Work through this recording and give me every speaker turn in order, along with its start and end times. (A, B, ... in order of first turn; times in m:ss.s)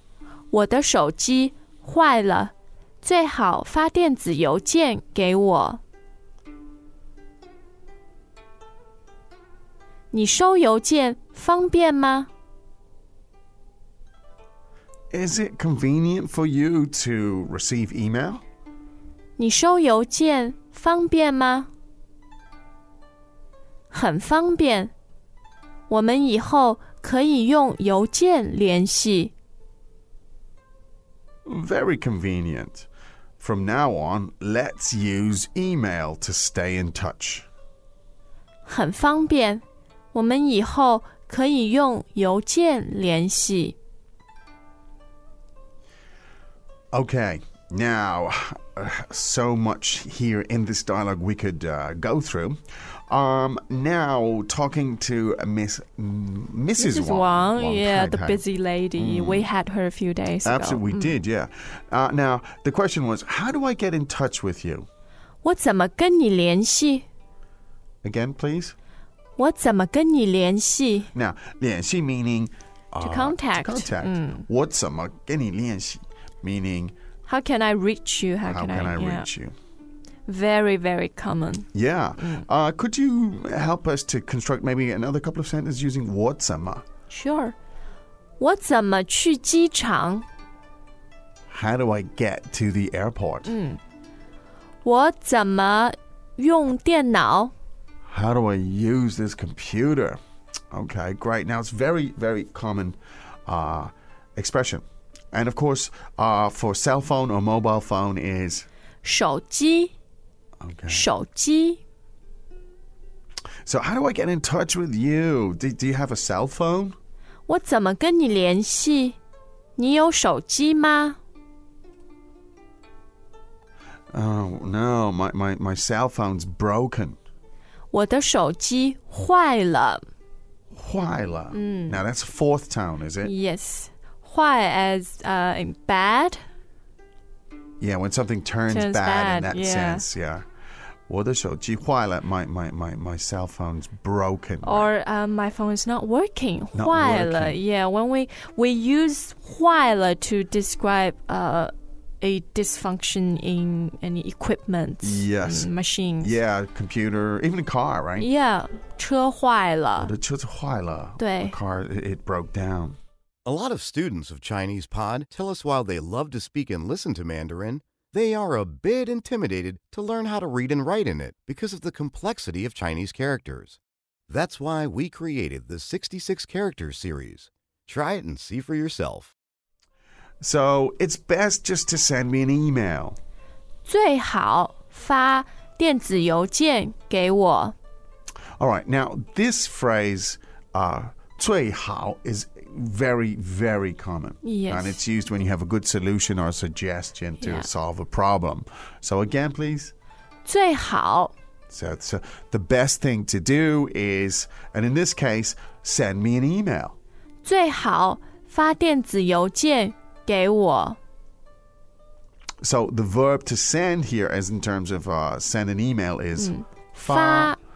0:00.5-0:05.8 A
0:10.1-0:12.3 A
0:15.1-0:18.4 B
0:19.4-0:21.7 A
0:23.9-0:24.9 A
0:25.9-0:29.3 A
0:31.5-0:32.9 B
0:33.4-0:37.5 B
0:38.7-0:43.8 A
0:46.9-0:58.4 B
0:56.8-1:01.2 A
0:59.0-0:59.5 B
1:00.4-1:04.9 B
1:05.4-1:07.0 A
1:08.0-1:08.8 B
1:09.4-1:11.1 A
1:11.1-1:16.9 B
1:13.0-1:14.5 A
1:17.3-1:19.3 A
1:18.5-1:19.5 B
1:20.3-1:21.7 A
1:21.7-1:26.8 B
1:27.1-1:27.6 A
1:28.4-1:30.3 A
1:31.5-1:33.5 B
1:33.5-1:33.8 A
1:34.8-1:37.5 A
1:38.1-1:40.2 B
1:40.7-1:48.7 B
1:49.0-1:49.9 A
1:50.6-1:51.1 B
1:50.9-1:51.8 A
1:53.6-1:57.0 B
1:57.5-1:59.2 A
1:59.8-2:01.2 A
2:04.1-2:07.2 B
2:07.9-2:10.0 A
2:10.7-2:13.3 B
2:11.5-2:12.0 A
2:13.2-2:16.4 A
2:17.8-2:20.5 B
2:18.7-2:20.0 A
2:21.1-2:24.9 B
2:24.6-2:36.4 A
2:26.7-2:27.6 B
2:35.0-2:38.3 B
2:38.2-2:40.1 A
2:40.0-2:43.0 B
2:41.2-2:41.6 A
2:43.5-2:53.8 C
2:54.3-2:59.3 C
3:00.4-3:03.2 B
3:03.8-3:07.8 A
3:08.6-3:19.9 B
3:14.4-3:15.0 A
3:17.4-3:17.7 A
3:20.4-3:21.3 A
3:21.7-3:27.0 B
3:27.4-3:31.0 A
3:32.6-3:37.6 B
3:36.4-3:37.6 A